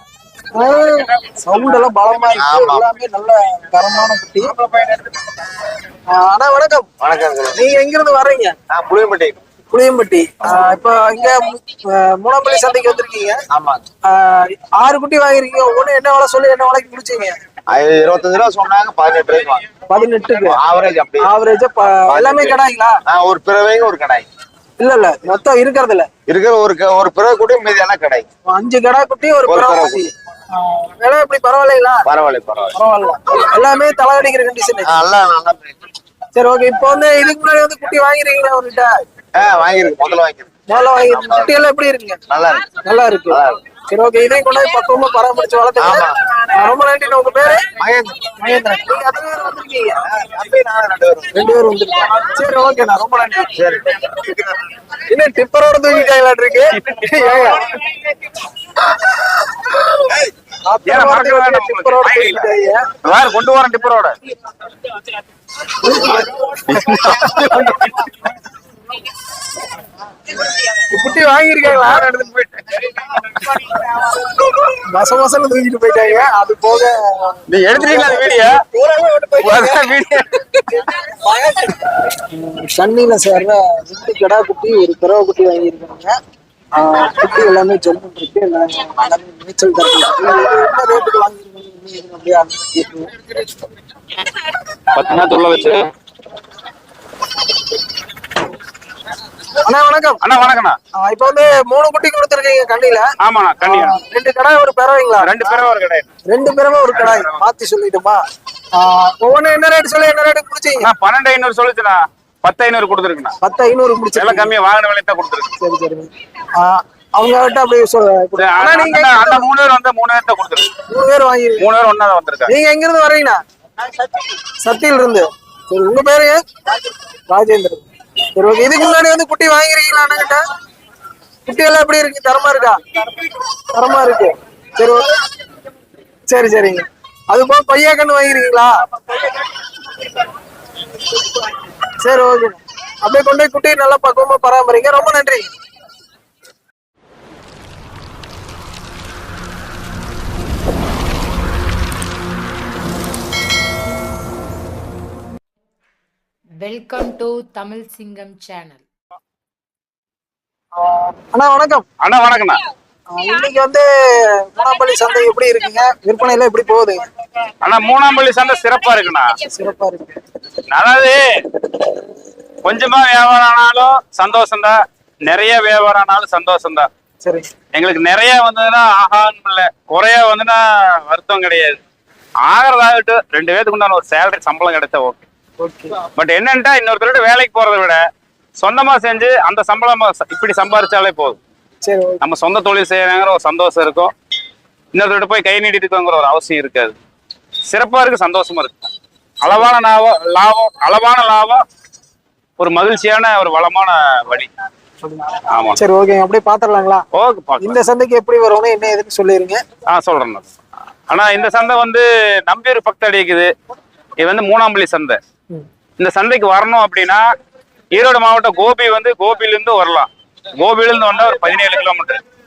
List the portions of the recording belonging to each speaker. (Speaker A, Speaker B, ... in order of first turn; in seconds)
Speaker A: 0.5-4.5, 6.1-6.9, 7.5-8.6, 9.7-13.4, 14.1-17.4, 19.9-20.6, 21.2-23.0, 24.8-26.1, 28.5-32.1, 32.8-34.9, 36.4-39.0, 40.7-42.2, 42.8-47.7, 48.3-50.0, 51.3-53.5, 55.1-57.8, 60.7-62.9, 65.8-67.6, 70.8-72.3, 74.6-79.7, 82.3-86.2, 86.8-93.2, 99.6-100.2, 101.0-105.5, 106.3-108.2, 108.8-110.9, 113.4-114.5, 115.6-119.5, 120.9-121.7, 122.5-123.4, 124.6-126.4, 127.3-127.8, 128.4-130.4, 131.5-132.8, 133.7-135.1, 136.3-138.8, 142.0-145.5, 161.2-161.8, 163.1-167.0, 169.5-170.2, 177.2-177.5, 185.6-186.0, 191.8-192.2, 205.0-207.1, 207.6-209.6
Speaker B: 2.4-2.9, 7.0-7.7, 8.7-9.4, 13.5-13.8, 17.7-19.6, 20.4-21.3, 21.9-24.3, 26.3-28.3, 29.5-30.1, 32.0-32.8, 34.9-35.8, 39.4-40.5, 41.1-41.5, 42.3-42.8, 43.3-43.6, 45.8-46.2, 47.8-48.3, 50.1-51.4, 53.5-54.6
Speaker C: 4.6-5.0, 56.9-57.5, 60.9-62.5, 63.0-64.2, 66.7-67.9, 71.8-72.8, 77.5-78.6, 79.4-80.7, 94.9-95.9, 100.2-100.8, 103.2-104.0, 105.2-106.1, 107.0-107.4, 110.8-113.4, 114.2-115.5, 118.4-120.7, 121.6-122.5, 162.0-162.6, 167.6-169.4, 170.7-171.4, 172.6-176.9, 177.7-181.8, 182.4-185.2, 186.2-188.0, 188.6-191.4, 192.2-194.1, 194.9-196.9, 197.7-198.8, 199.4-201.6, 202.6-204.5, 205.5-205.8, 207.1-207.8, 209.9-210.5, 211.1-213.5, 214.2-215.2, 216.0-217.2, 217.9-222.2
Speaker D: 156.6-158.8